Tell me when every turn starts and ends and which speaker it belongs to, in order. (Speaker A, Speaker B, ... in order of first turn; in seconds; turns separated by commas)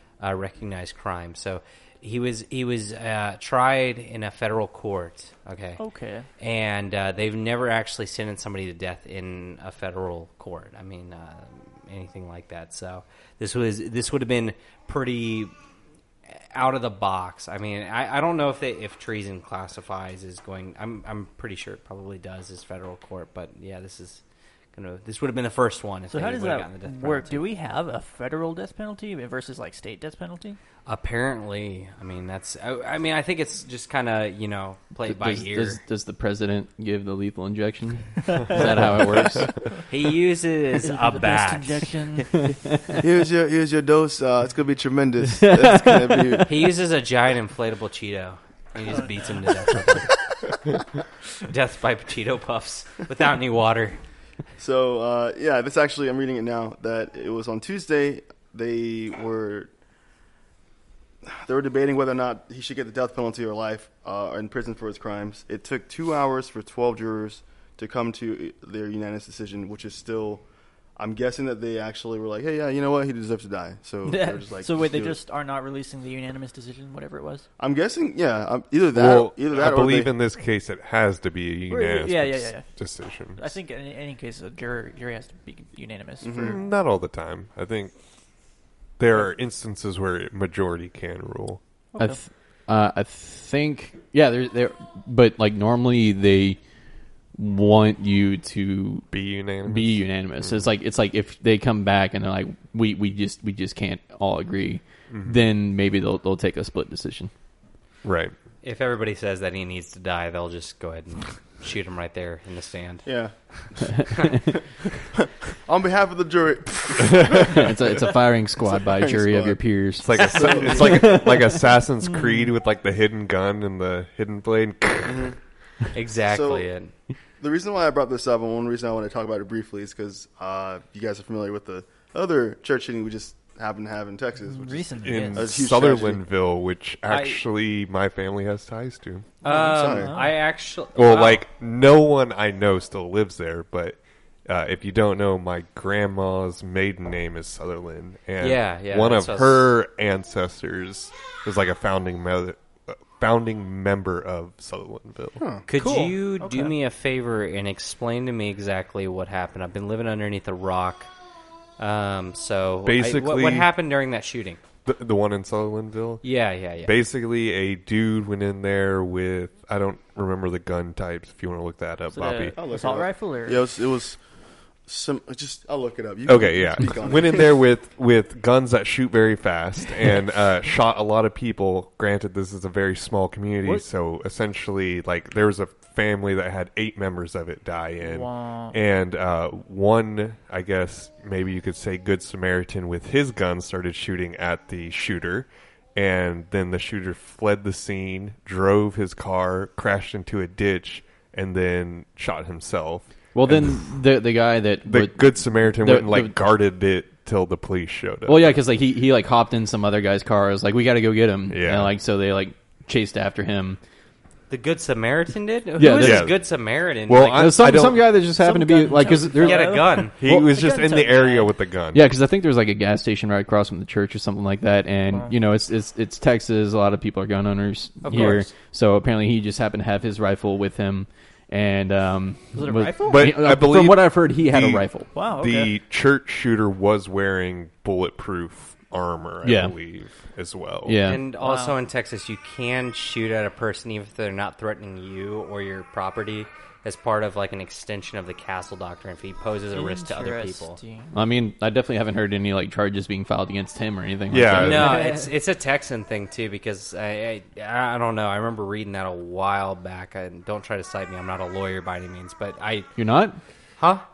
Speaker A: 0.2-5.8, Speaker B: 5.8-6.3, Speaker A: 6.4-15.5, Speaker A: 16.3-24.2, Speaker A: 24.7-27.4, Speaker B: 26.1-30.6, Speaker A: 30.9-35.8, Speaker C: 35.1-39.6, Speaker B: 38.2-39.8, Speaker A: 39.9-42.2, Speaker B: 40.8-42.4, Speaker C: 42.4-42.9, Speaker D: 43.0-46.5, Speaker C: 45.3-46.7, Speaker A: 46.4-50.3, Speaker B: 48.9-49.3, Speaker A: 51.4-54.0, Speaker D: 54.6-59.7, Speaker D: 61.2-70.4, Speaker D: 71.0-75.2, Speaker B: 74.0-77.5, Speaker D: 77.6-80.1, Speaker E: 78.9-83.4, Speaker B: 81.7-82.8, Speaker B: 83.3-86.5, Speaker D: 86.2-86.6, Speaker E: 86.3-87.9, Speaker E: 89.0-91.6, Speaker B: 91.9-92.2, Speaker C: 92.0-96.6, Speaker C: 97.3-107.3, Speaker E: 99.1-100.7, Speaker E: 105.1-105.4, Speaker E: 108.0-108.3, Speaker A: 108.6-113.0, Speaker D: 113.0-113.3, Speaker D: 115.1-117.7, Speaker E: 117.0-117.6, Speaker C: 117.5-121.5, Speaker D: 118.6-119.6, Speaker E: 120.0-125.3, Speaker D: 120.2-121.1, Speaker B: 120.4-120.9, Speaker B: 122.0-122.5, Speaker D: 125.0-125.3, Speaker A: 125.9-126.9, Speaker D: 126.3-126.7, Speaker D: 127.4-136.2, Speaker B: 134.4-135.7, Speaker E: 135.0-139.3, Speaker A: 137.1-137.4, Speaker A: 139.4-141.4, Speaker D: 139.5-140.1, Speaker B: 139.9-140.3, Speaker E: 140.9-155.4, Speaker A: 148.4-149.7, Speaker D: 155.4-155.7, Speaker A: 155.7-161.1, Speaker B: 155.8-156.1, Speaker A: 161.8-164.6, Speaker E: 162.8-163.7, Speaker E: 164.8-166.2, Speaker A: 166.2-166.9, Speaker E: 166.8-172.6, Speaker B: 172.1-173.6, Speaker D: 172.6-174.2, Speaker D: 174.8-177.5, Speaker E: 176.3-203.9, Speaker B: 188.0-188.8, Speaker C: 203.3-206.3, Speaker E: 204.8-208.5, Speaker C: 208.2-213.8, Speaker E: 211.5-211.9, Speaker A: 214.5-217.6, Speaker C: 215.8-216.3, Speaker E: 215.9-216.5, Speaker E: 217.1-218.1, Speaker C: 217.3-219.8, Speaker B: 218.3-221.5, Speaker A: 219.3-220.1, Speaker E: 220.2-222.0, Speaker C: 221.9-235.1, Speaker B: 225.1-225.3, Speaker A: 228.0-228.5, Speaker B: 228.1-228.4, Speaker B: 232.5-233.3, Speaker E: 233.0-241.0, Speaker B: 235.1-235.7, Speaker C: 239.4-239.7, Speaker C: 240.8-241.2, Speaker A: 241.0-250.8, Speaker B: 241.4-241.8, Speaker B: 249.7-251.1, Speaker C: 251.1-255.0, Speaker E: 254.3-255.0, Speaker A: 254.5-262.9, Speaker B: 254.7-255.3, Speaker C: 262.9-263.4, Speaker A: 263.8-264.0